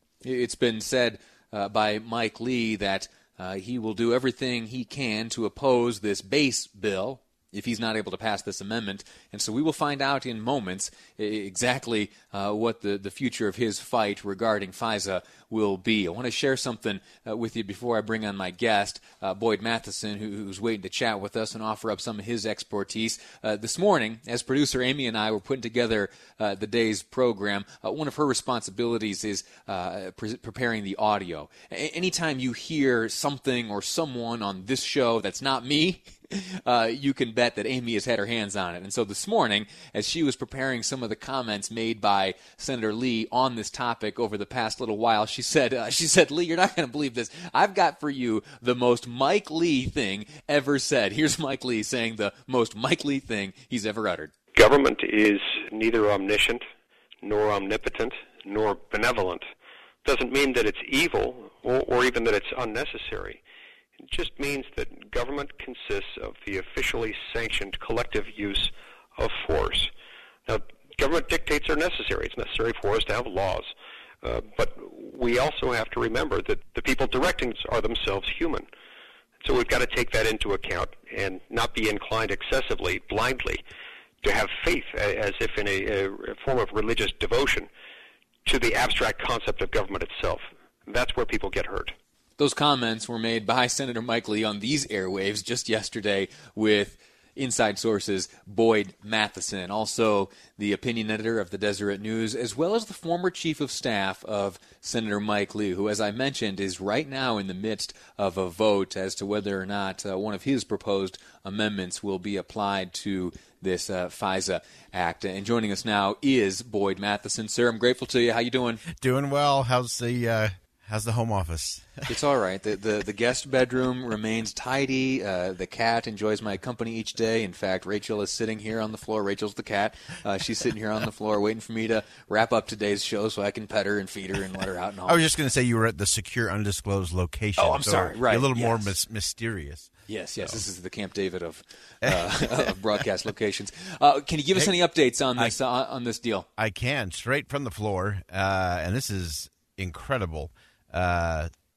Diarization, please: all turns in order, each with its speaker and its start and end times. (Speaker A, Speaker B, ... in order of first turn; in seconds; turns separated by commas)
Speaker A: 0.2-54.3, Speaker B: 54.5-56.6, Speaker B: 57.2-59.4, Speaker B: 60.0-63.4, Speaker B: 64.0-69.9, Speaker B: 70.5-73.7, Speaker B: 74.2-78.7, Speaker B: 79.4-83.6, Speaker B: 84.2-87.7, Speaker B: 88.5-92.0, Speaker A: 92.4-118.8, Speaker C: 118.9-122.1, Speaker A: 122.1-135.3, Speaker C: 135.1-140.6, Speaker A: 137.6-139.0, Speaker A: 140.1-146.5, Speaker C: 142.0-142.7, Speaker C: 146.6-151.5